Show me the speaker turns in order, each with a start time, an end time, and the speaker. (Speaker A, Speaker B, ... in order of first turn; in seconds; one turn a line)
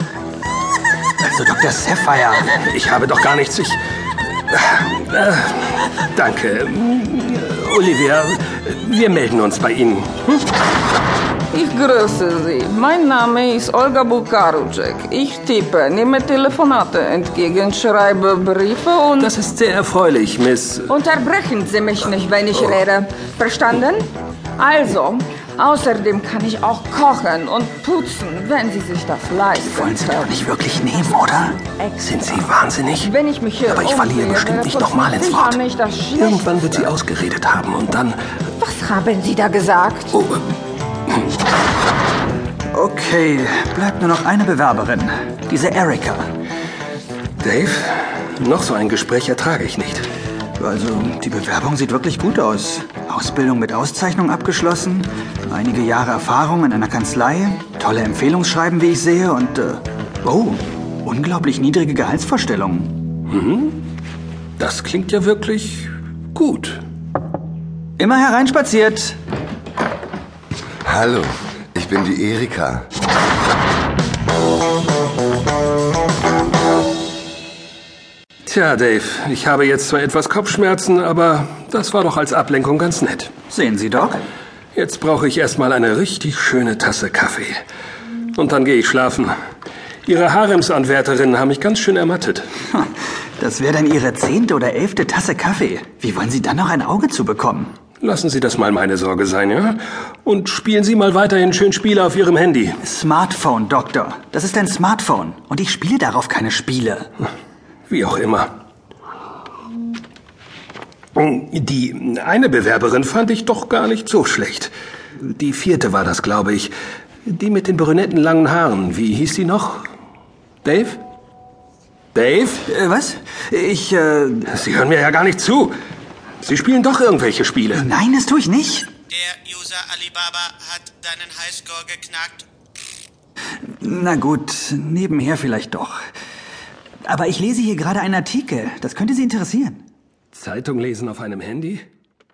Speaker A: 1.2-2.5
Speaker B: 2.5-3.8
Speaker B: 4.5-10.4
Speaker C: 11.5-19.3
Speaker B: 19.2-20.9
Speaker C: 20.9-30.3
Speaker A: 29.6-31.6
Speaker B: 32.0-33.1
Speaker C: 33.0-36.7
Speaker B: 33.6-35.6
Speaker B: 36.1-38.2
Speaker C: 38.6-40.2
Speaker B: 40.1-40.4
Speaker A: 42.7-46.2
Speaker B: 47.4-50.1
Speaker A: 50.6-62.9
Speaker B: 63.3-63.8
Speaker B: 64.6-66.8
Speaker A: 68.0-69.2
Speaker D: 70.8-72.8
Speaker B: 78.5-83.3
Speaker A: 83.5-84.2
Speaker B: 84.7-87.6
Speaker B: 88.3-89.3
Speaker B: 90.0-92.5
Speaker A: 92.7-97.7
Speaker B: 98.0-102.8
Speaker A: 102.8-107.1
Speaker B: 107.9-108.5
Speaker B: 111.1-116.7
Speaker B: 117.2-119.9
Speaker B: 120.6-121.0
Speaker B: 122.1-122.7
Speaker A: 122.7-124.5
Speaker B: 124.5-125.7
Speaker B: 126.4-127.8
Speaker A: 127.7-128.9
Speaker E: 129.1-132.4
Speaker A: 133.8-136.0
Speaker A: 137.1-139.8
Speaker B: 140.3-141.8